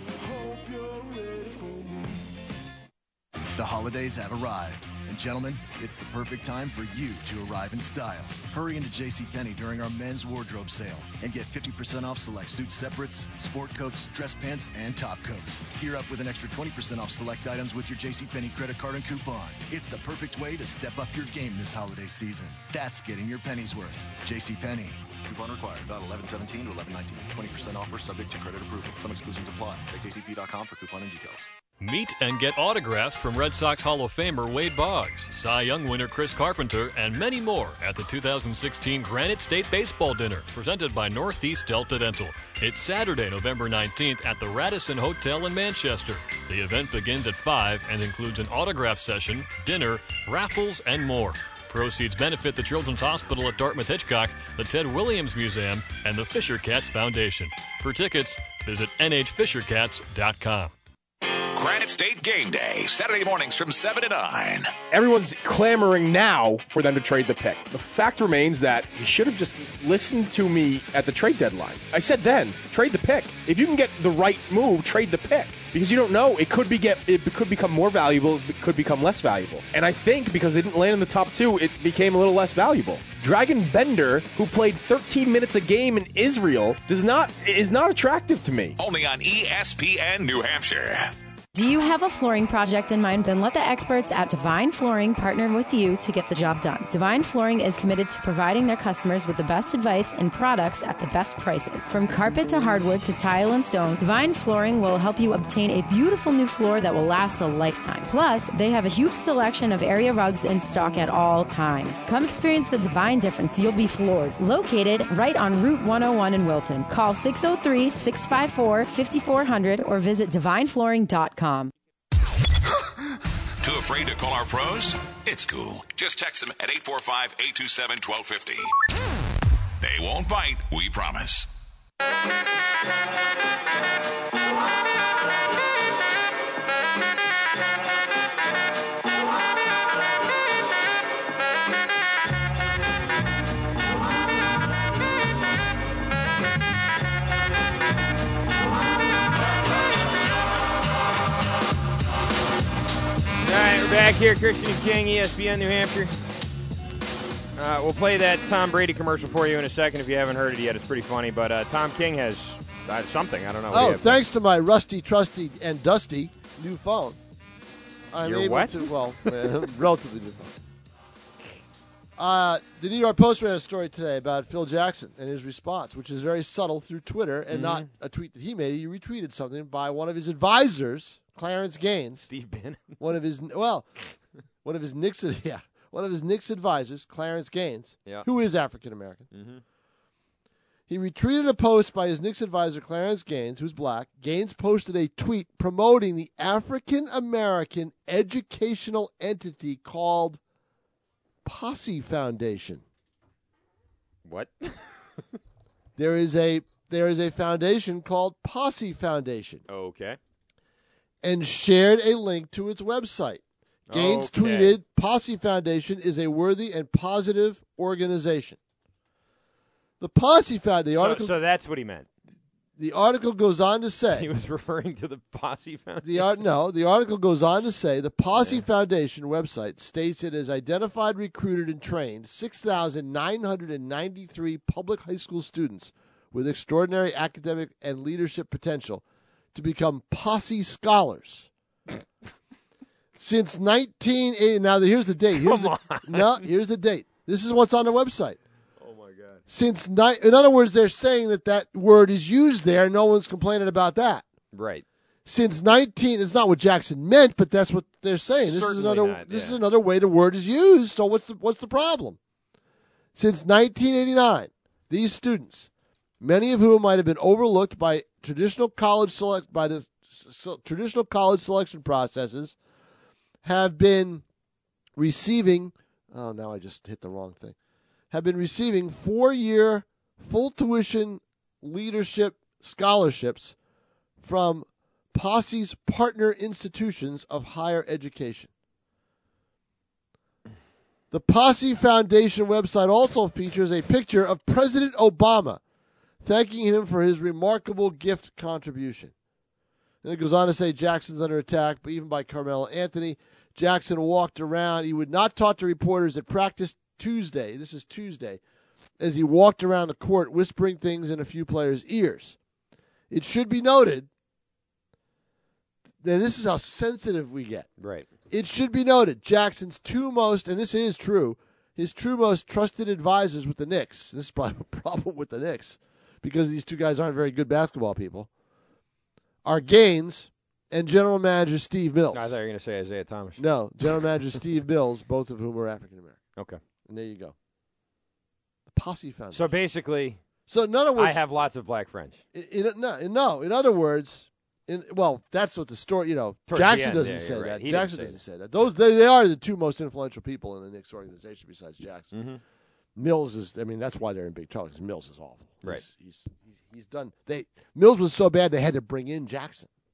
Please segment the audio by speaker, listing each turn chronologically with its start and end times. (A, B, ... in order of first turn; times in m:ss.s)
0:00.3-0:01.8 A
0:03.6-0:31.5 A
0:31.8-1:00.7 B
1:01.5-1:04.7 C
1:04.9-1:28.8 D
1:28.8-1:31.1 C
1:31.5-2:01.7 E
2:03.6-2:08.7 C
2:09.8-2:11.5 C
2:33.4-2:36.2 F
2:37.6-2:44.2 F
2:43.7-2:47.2 G
2:48.1-2:50.6 G
2:48.2-2:49.4 F
2:52.2-3:02.3 G
2:57.5-2:57.9 F
3:02.2-3:03.0 F
3:03.0-3:03.9 G
3:04.6-3:09.3 G
3:09.3-3:09.6 F
3:10.9-3:20.4 G
3:21.4-3:22.8 G
3:24.2-3:25.2 F
3:26.0-3:29.6 G
3:29.7-3:30.2 F
3:31.2-3:38.6 G
3:33.9-3:34.8 F
3:40.0-3:41.4 G
3:40.9-3:42.1 F
3:42.8-3:44.3 G
3:44.1-3:46.4 F
3:46.0-4:01.5 G
3:48.4-3:48.6 F
4:03.2-4:08.4 G
4:05.4-4:06.5 F
4:08.8-4:09.4 F
4:09.5-4:14.2 G
4:14.5-4:14.8 F
4:15.3-4:22.2 G
4:18.4-4:19.6 F
4:23.2-4:25.7 G
4:26.2-4:32.6 G
4:33.4-4:34.2 G
4:35.0-4:37.6 G
4:38.1-4:43.6 G
4:44.2-4:48.5 G
4:51.1-4:55.6 G
4:56.2-4:59.1 G
5:00.0-5:08.4 G
5:09.0-5:12.4 G
5:13.1-5:14.1 G
5:16.0-5:17.7 G
5:17.8-5:18.1 F
5:18.3-5:28.3 G
5:29.4-5:32.4 G
5:32.1-5:33.4 F
5:33.4-5:36.2 G
5:36.9-5:37.4 G
5:38.7-5:39.5 G
5:39.3-5:40.2 F
5:40.5-5:41.2 G
5:41.0-5:42.2 F
5:42.3-5:52.1 G
5:46.5-5:48.2 F
5:52.1-5:52.4 F
5:53.0-5:59.7 G